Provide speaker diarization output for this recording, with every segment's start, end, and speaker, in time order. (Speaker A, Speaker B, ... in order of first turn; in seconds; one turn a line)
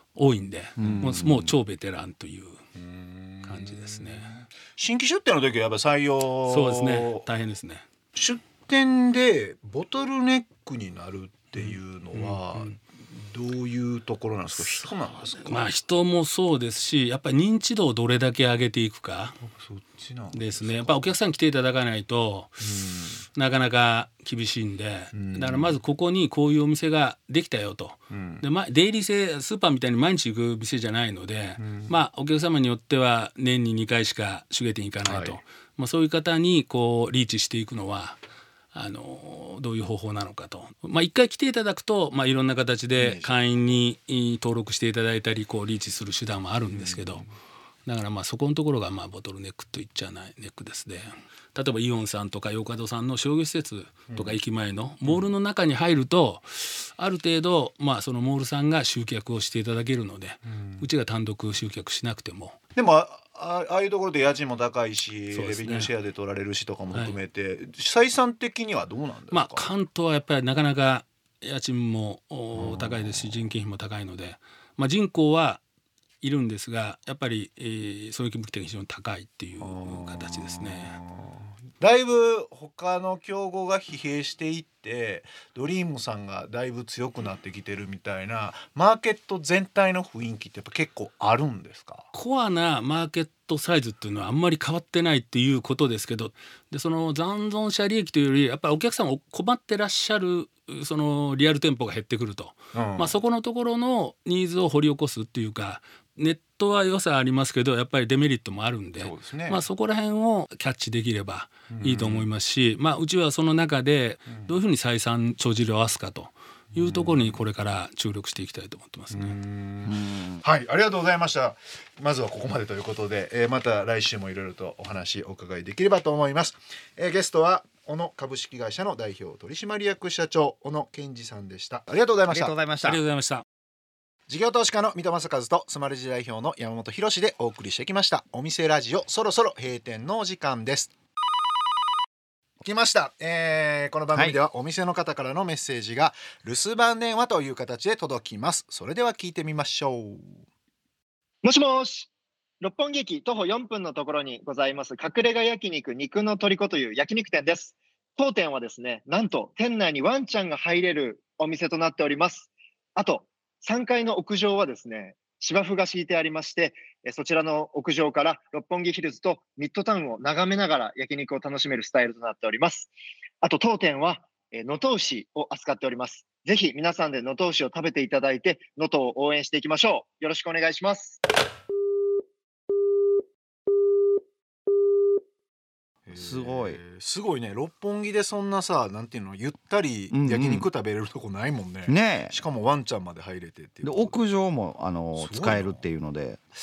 Speaker A: 0.1-2.6
Speaker B: 0.8-1.1
Speaker C: 0.8-1.5
Speaker B: 2.8-7.2
Speaker A: 3.4-4.3
Speaker A: 6.5-7.8
Speaker B: 8.1-15.7
Speaker A: 11.5-12.8
Speaker A: 14.6-19.4
Speaker B: 19.4-21.1
Speaker A: 20.3-22.6
Speaker B: 22.6-23.2
Speaker A: 23.3-38.2
Speaker B: 25.1-25.7
Speaker B: 28.1-28.4
Speaker B: 31.6-31.9
Speaker B: 35.0-35.4
Speaker A: 38.7-47.2
Speaker B: 43.0-43.3
Speaker B: 46.7-47.3
Speaker A: 47.9-62.6
Speaker B: 54.1-54.4
Speaker B: 55.0-55.3
Speaker B: 60.5-60.9
Speaker B: 62.8-69.7
Speaker A: 65.3-65.9
Speaker A: 69.3-75.6
Speaker B: 72.6-73.1
Speaker A: 76.2-81.0
Speaker B: 79.6-92.1
Speaker A: 92.1-119.4
Speaker B: 102.7-103.1
Speaker B: 109.0-109.6
Speaker B: 111.7-112.3
Speaker B: 116.7-117.4
Speaker B: 119.1-132.5
Speaker C: 119.9-120.4
Speaker C: 132.3-133.0
Speaker A: 132.8-133.4
Speaker B: 134.3-140.9
Speaker B: 142.6-150.4
Speaker D: 151.4-152.1
Speaker D: 152.6-181.2
Speaker B: 186.1-194.2
Speaker C: 186.1-186.8
Speaker C: 190.1-190.7
Speaker C: 191.9-192.3
Speaker C: 193.8-196.4
Speaker B: 195.2-195.8